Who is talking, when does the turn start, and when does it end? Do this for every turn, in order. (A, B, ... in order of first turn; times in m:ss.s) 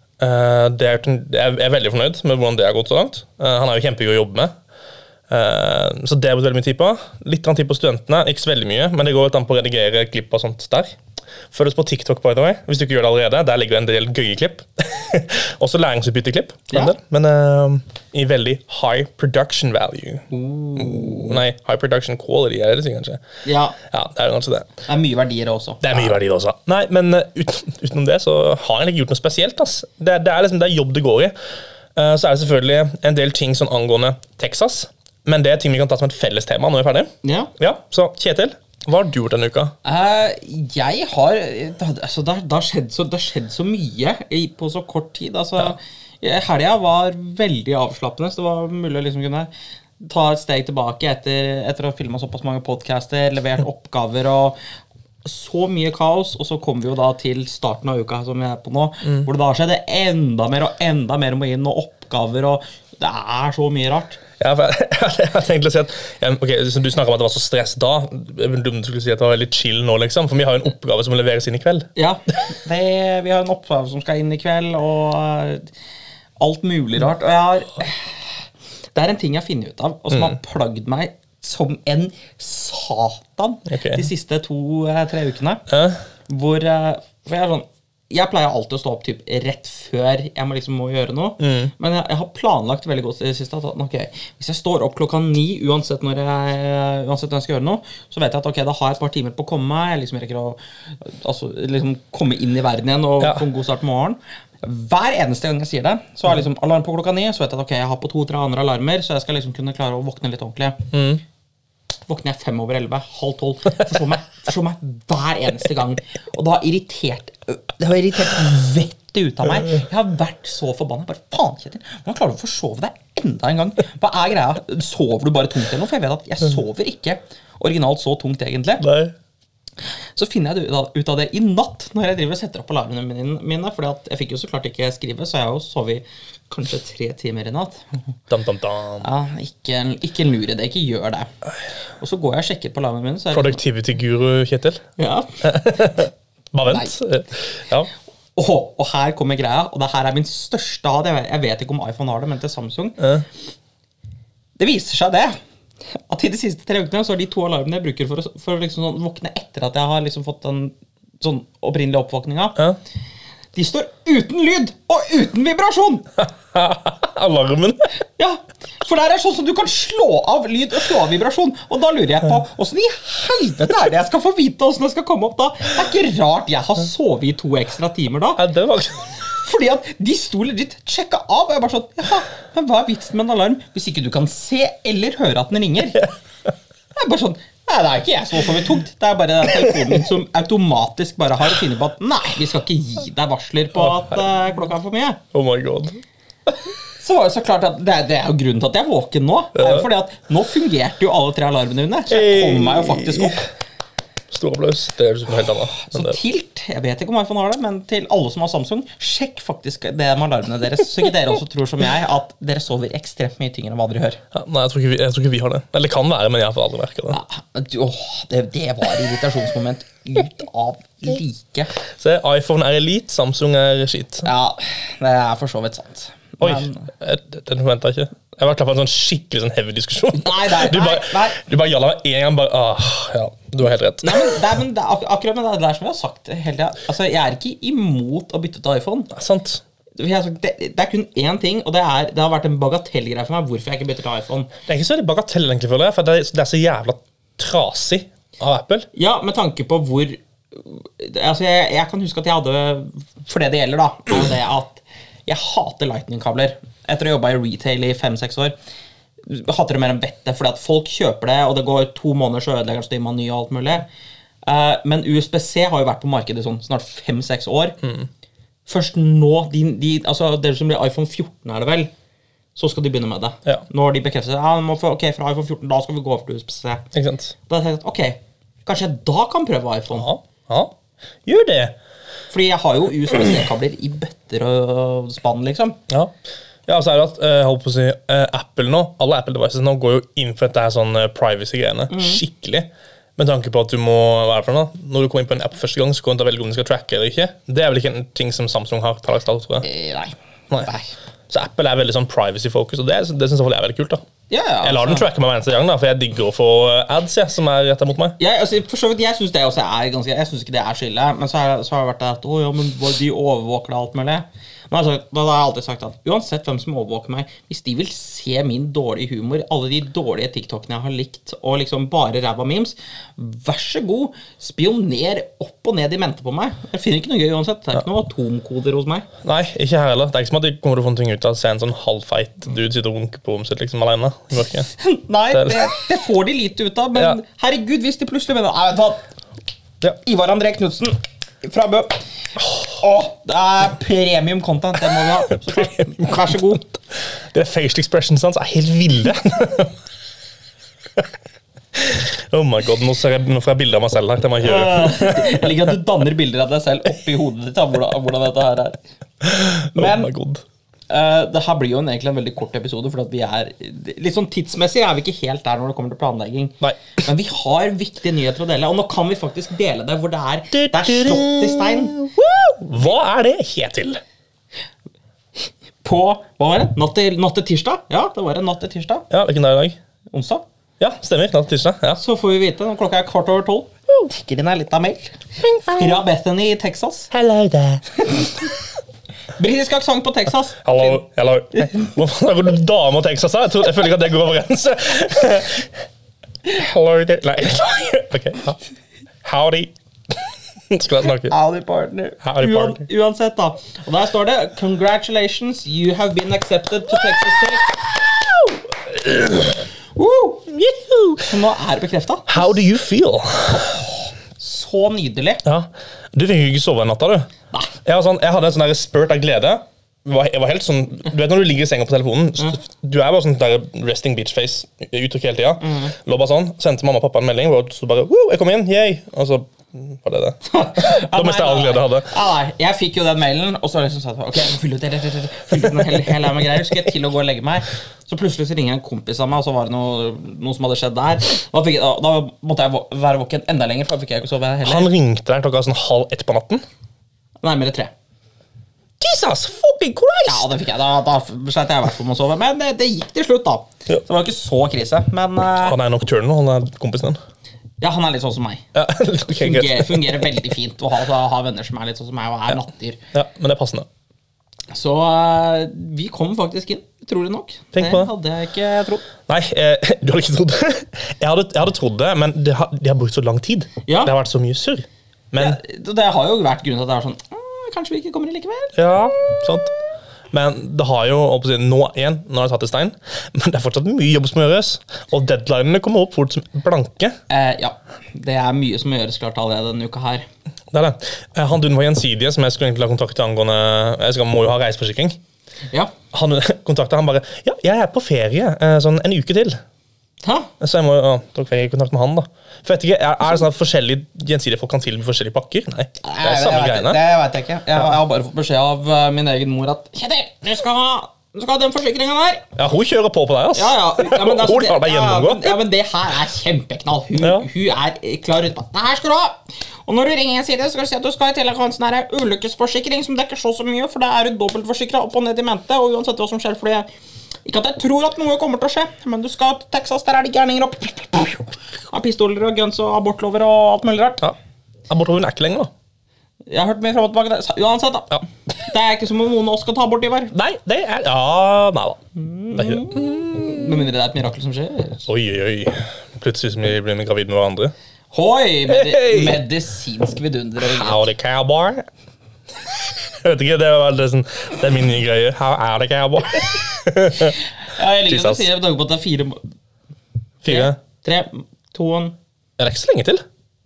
0:00.2-0:04.5 A
0:05.3-0:10.9 A
0:11.5-0:23.2 A
0:20.3-0:21.4 B
0:23.4-0:23.8 B
0:23.8-0:24.7 A
0:24.8-0:26.1 B
0:25.8-0:31.3 A
0:32.0-0:39.7 A
0:37.2-0:37.5 B
0:39.8-0:54.6 B
0:55.2-1:04.2 B
1:04.4-1:11.9 A
1:12.0-1:15.7 B
1:16.4-1:18.2 B
1:18.9-1:25.6 B
1:23.7-1:24.1 A
1:25.7-1:26.0 A
1:26.3-1:50.9 B
1:31.4-1:31.7 A
1:50.9-1:51.2 A
1:52.1-2:08.8 B
2:08.8-2:09.1 A
2:10.2-2:17.9 B
2:18.3-2:19.1 A
2:19.0-2:21.3 B
2:22.0-2:23.6 B
2:23.3-2:24.8 A
2:25.0-2:25.8 B
2:25.4-2:27.9 A
2:26.7-2:26.9 B
2:28.4-2:33.0 B
2:33.0-2:33.2 A
2:34.6-2:35.4 B
2:36.1-2:42.6 B
2:43.5-2:46.1 B
2:46.2-2:47.9 A
2:48.2-2:58.4 B
2:58.4-2:59.2 A
2:59.2-3:06.1 B
3:07.0-3:15.2 B
3:09.5-3:09.8 A
3:13.7-3:14.2 A
3:15.3-3:16.0 A
3:17.0-3:23.4 B
3:19.5-3:19.9 A
3:22.1-3:23.4 A
3:24.3-3:26.2 A
3:25.7-3:34.2 B
3:34.3-3:37.2 A
3:37.1-3:41.7 B
3:42.0-3:44.3 A
3:44.2-3:46.9 B
3:46.4-3:54.4 A
3:50.1-3:51.4 B
3:54.0-3:59.1 B
3:59.1-3:59.6 A
4:00.0-4:04.5 B
4:04.7-4:08.9 A
4:08.9-4:18.5 B
4:19.2-4:23.8 B
4:24.4-4:27.8 B
4:27.8-4:28.1 A
4:28.7-4:31.9 B
4:32.5-4:36.9 B
4:36.9-4:37.3 A
4:37.4-4:40.1 B
4:39.9-4:40.7 A
4:41.2-4:41.7 A
4:42.3-4:45.8 B
4:46.7-4:59.6 A
4:51.9-4:52.2 B
4:59.6-5:00.9 B
5:01.3-5:04.0 A
5:04.3-5:05.1 B
5:04.6-5:08.2 A
5:08.2-5:29.0 B
5:29.2-5:34.7 A
5:34.8-5:39.0 B
5:35.3-5:35.6 A
5:39.8-5:42.0 B
5:42.6-5:46.8 B
5:44.9-5:46.4 A
5:47.3-5:49.7 A
5:51.8-5:55.6 A
5:54.4-5:58.8 B
5:59.2-6:00.4 A
5:59.5-6:00.1 B
6:00.9-6:12.0 B
6:10.5-6:14.0 A
6:15.8-6:19.0 B
6:19.1-6:19.8 A
6:20.1-6:20.4 B
6:20.8-6:22.0 A
6:22.0-6:27.1 B
6:25.4-6:26.0 A
6:27.1-6:27.8 A
6:28.0-6:28.5 B
6:29.4-6:31.0 B
6:30.6-6:35.7 A
6:36.4-6:38.6 A
6:39.2-6:39.7 A
6:40.7-6:41.3 A
6:41.3-6:48.0 B
6:42.2-6:42.8 A
6:48.9-6:49.6 A
6:49.9-6:50.5 B
6:50.5-6:51.3 A
6:51.3-6:52.5 B
6:52.3-6:53.9 A
6:54.4-6:55.4 B
6:55.4-6:57.3 A
6:57.8-7:12.1 A
7:05.6-7:05.9 B
7:10.4-7:24.9 B
7:24.6-7:26.6 A
7:27.4-7:27.9 B
7:29.0-7:30.4 A
7:30.3-7:35.8 B
7:35.6-7:37.2 A
7:37.8-7:38.6 B
7:38.7-7:40.2 A
7:39.3-7:43.0 B
7:43.1-7:43.8 A
7:44.7-7:49.0 B
7:47.7-7:48.1 A
7:49.3-7:55.6 A
7:53.8-7:54.1 B
7:55.4-7:58.8 B
7:58.7-7:59.7 A
8:00.3-8:07.1 A
8:07.3-8:10.2 B
8:10.7-8:15.2 A
8:16.1-8:19.6 A
8:20.2-8:20.5 B
8:20.6-8:27.0 A
8:26.0-8:32.4 B
8:32.6-8:35.5 A
8:33.5-8:46.9 B
8:37.2-8:37.5 A
8:47.4-8:54.2 B
8:54.9-8:55.7 A
8:56.5-9:00.3 B
9:00.3-9:02.0 A
9:02.2-9:05.0 B
9:02.5-9:03.7 A
9:05.0-9:07.7 A
9:08.1-9:11.0 B
9:08.7-9:09.4 A
9:10.6-9:11.8 A
9:13.2-9:17.4 A
9:17.2-9:19.4 B
9:18.1-9:18.5 A
9:20.4-9:20.8 A
9:20.4-9:22.1 B
9:22.6-9:23.2 A